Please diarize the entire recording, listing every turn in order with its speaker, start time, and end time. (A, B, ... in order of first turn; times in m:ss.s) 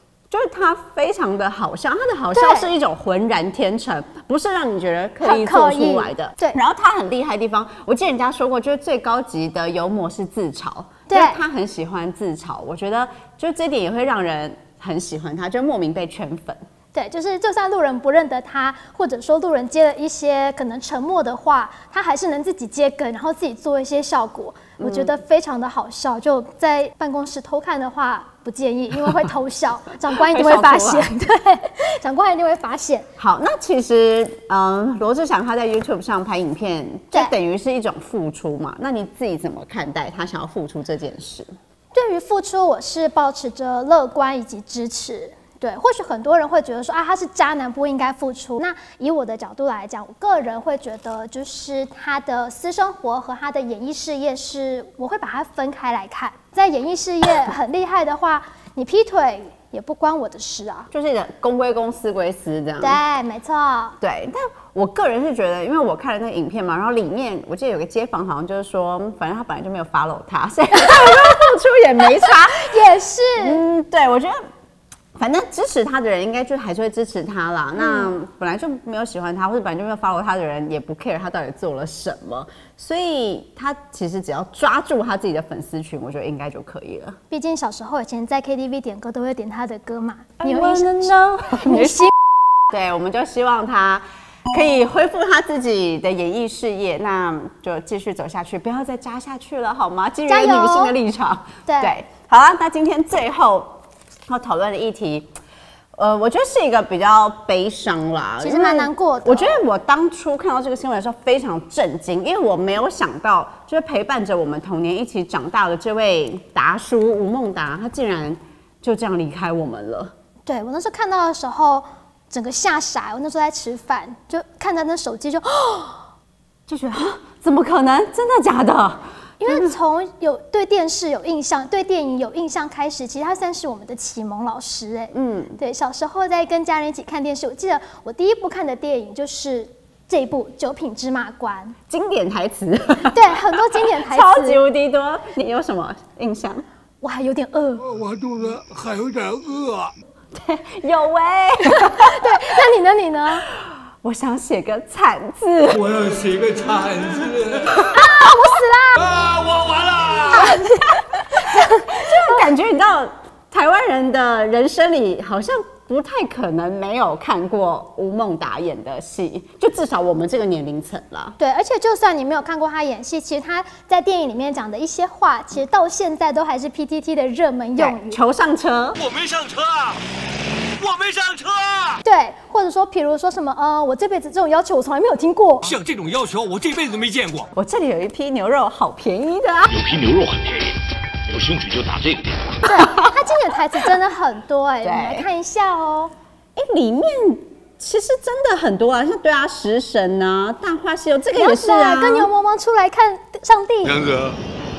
0:00.3-0:16.6 A
0:02.4-0:02.7 B
0:05.2-0:06.6 B
0:11.1-0:11.4 B
0:16.9-0:33.1 B
0:24.8-0:25.2 A
0:30.1-0:31.1 A
0:33.2-0:41.5 A
0:41.9-1:00.9 B
1:00.9-1:03.0 A
1:02.8-1:04.0 B
1:04.0-1:12.7 A
1:10.7-1:11.5 B
1:12.1-1:13.6 B
1:13.4-1:14.4 A
1:15.2-1:27.2 A
1:17.8-1:18.1 B
1:27.3-1:31.1 B
1:30.4-1:32.1 A
1:31.7-1:32.1 B
1:32.7-1:45.3 A
1:40.3-1:40.9 B
1:41.7-1:42.0 B
1:46.0-2:00.1 A
1:48.4-1:49.6 B
2:00.5-2:06.0 B
2:06.7-2:09.7 A
2:09.4-2:21.8 B
2:15.1-2:15.6 A
2:21.9-2:26.7 A
2:23.1-2:24.6 B
2:27.0-2:27.8 B
2:27.8-2:29.9 C
2:30.3-2:32.5 A
2:31.7-2:33.5 B
2:33.5-2:35.9 A
2:35.7-2:38.0 C
2:37.9-2:39.2 B
2:39.0-2:40.6 C
2:40.3-2:42.4 B
2:41.3-2:51.4 A
2:51.4-2:58.2 B
2:57.8-2:59.0 A
2:59.0-3:00.0 C
3:00.8-3:02.0 C
3:02.0-3:05.7 B
3:05.6-3:07.5 C
3:07.5-3:09.8 A
3:09.7-3:12.6 D
3:12.6-3:16.1 B
3:12.7-3:13.2 A
3:14.8-3:15.3 A
3:16.6-3:22.3 A
3:21.4-3:24.0 B
3:23.8-3:24.4 C